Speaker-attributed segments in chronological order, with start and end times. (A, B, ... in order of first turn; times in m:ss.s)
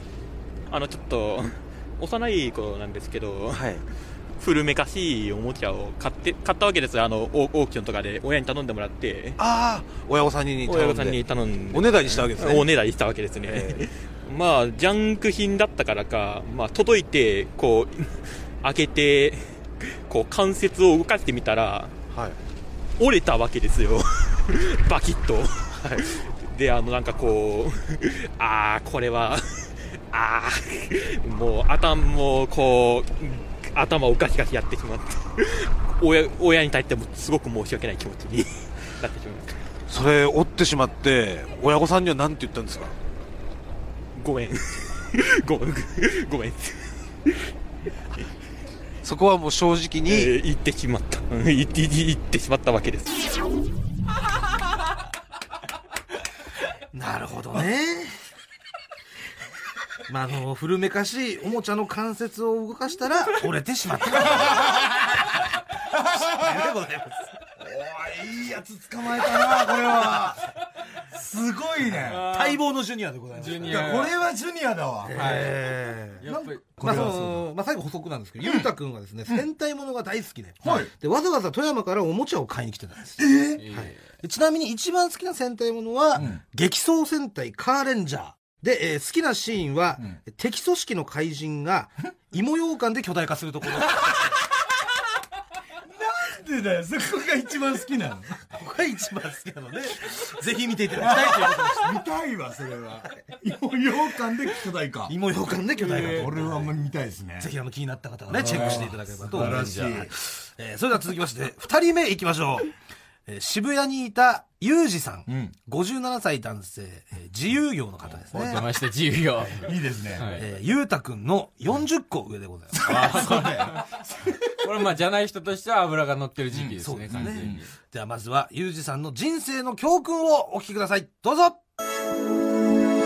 0:00.7-0:03.7 A
0:03.5-0:03.8 B
0:04.4-0:09.4 A
0:09.4-0:12.7 B
0:10.6-0:22.0 A
0:13.5-0:13.8 B
0:22.1-0:22.4 B
0:23.0-0:39.6 A
0:25.8-0:26.1 B
0:39.9-0:42.9 B
0:44.1-0:47.4 A
0:49.0-0:50.3 B
0:50.0-0:53.2 A
0:56.9-0:58.2 C
1:00.1-1:04.8 C
1:04.2-1:04.9 D
1:05.9-1:06.6 D
1:06.0-1:07.3 C
1:07.6-1:10.4 D
1:11.1-1:12.3 D
1:11.9-1:12.6 E
1:12.3-1:13.9 C
1:13.4-1:14.1 E
1:13.6-1:15.4 D
1:15.0-1:16.2 C
1:15.2-1:15.5 E
1:16.2-1:17.1 E
1:16.2-1:17.4 D
1:16.8-1:23.2 C
1:18.4-1:18.7 D
1:20.6-1:20.9 D
1:23.2-1:23.6 D
1:23.6-1:24.0 E
1:23.7-1:34.4 C
1:35.9-1:38.5 D
1:38.5-1:42.0 C
1:40.9-1:45.1 D
1:45.1-1:46.7 C
1:45.9-1:46.2 E
1:46.0-1:47.5 D
1:47.4-1:52.7 C
1:48.3-1:50.1 D
1:48.4-1:50.1 E
1:53.3-1:58.6 C
1:55.3-1:55.5 D
1:58.3-2:00.4 E
1:59.6-2:00.3 D
2:00.4-2:03.5 C
2:02.7-2:04.4 D
2:02.8-2:03.9 E
2:04.6-2:07.6 E
2:06.5-2:07.6 D
2:06.8-2:11.6 C